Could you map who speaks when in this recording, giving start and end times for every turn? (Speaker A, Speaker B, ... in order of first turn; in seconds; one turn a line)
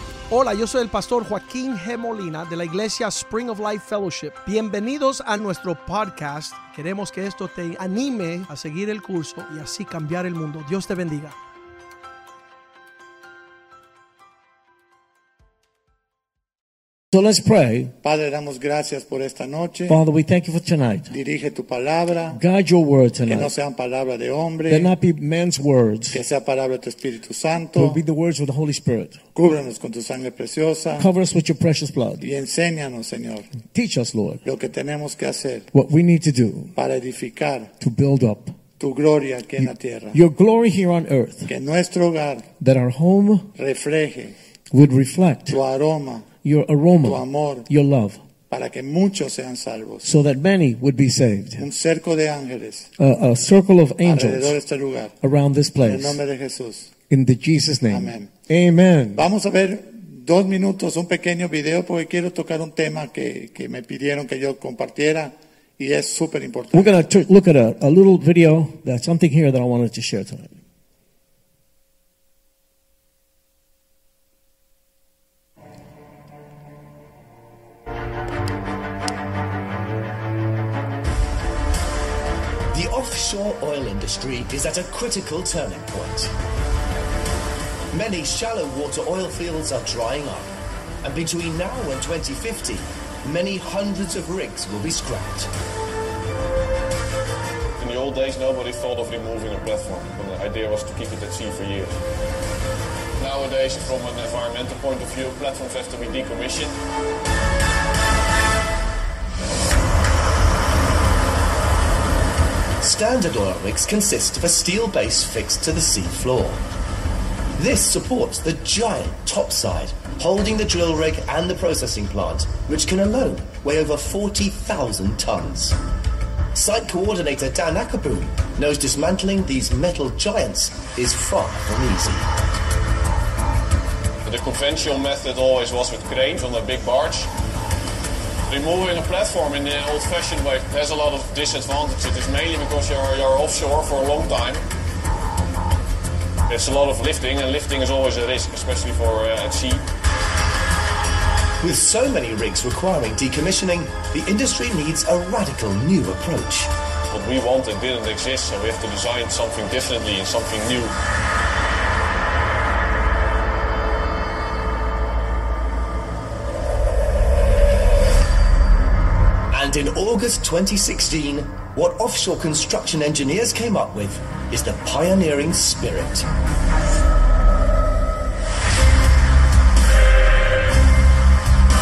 Speaker A: 0.3-11.4
Speaker B: 17.1-17.9
Speaker C: 18.0-20.0
Speaker B: 19.9-21.1
Speaker C: 21.1-22.4
Speaker B: 22.3-23.5
Speaker C: 23.3-24.9
Speaker B: 24.7-26.2
Speaker C: 26.1-28.0
Speaker B: 27.8-29.2
Speaker C: 29.4-31.1
Speaker B: 31.0-32.2
Speaker C: 32.2-33.5
Speaker B: 33.7-34.4
Speaker C: 34.5-35.7
Speaker B: 35.7-36.7
Speaker C: 36.8-37.7
Speaker B: 37.8-38.5
Speaker C: 38.8-40.2
Speaker B: 39.6-41.5
Speaker C: 41.5-42.5
Speaker B: 42.6-43.5
Speaker C: 43.6-44.4
Speaker B: 44.7-45.6
Speaker C: 45.5-46.3
Speaker B: 46.4-48.2
Speaker C: 47.0-47.7
Speaker C: 48.5-50.1
Speaker B: 50.0-51.6
Speaker C: 51.6-52.9
Speaker B: 53.0-54.6
Speaker C: 54.0-55.2
Speaker B: 55.2-56.2
Speaker C: 55.9-56.9
Speaker B: 57.1-59.2
Speaker C: 57.9-58.3
Speaker C: 59.1-66.9
Speaker B: 66.7-70.6
Speaker D: 82.7-86.3
Speaker D: 87.9-95.5
Speaker E: 97.8-102.0
Speaker E: 103.2-106.7
Speaker D: 112.8-116.6
Speaker D: 117.6-125.8
Speaker D: 126.5-132.3
Speaker E: 134.2-137.3
Speaker E: 138.5-144.6
Speaker E: 146.5-149.8
Speaker D: 151.6-156.7
Speaker E: 157.1-160.9
Speaker D: 169.5-176.3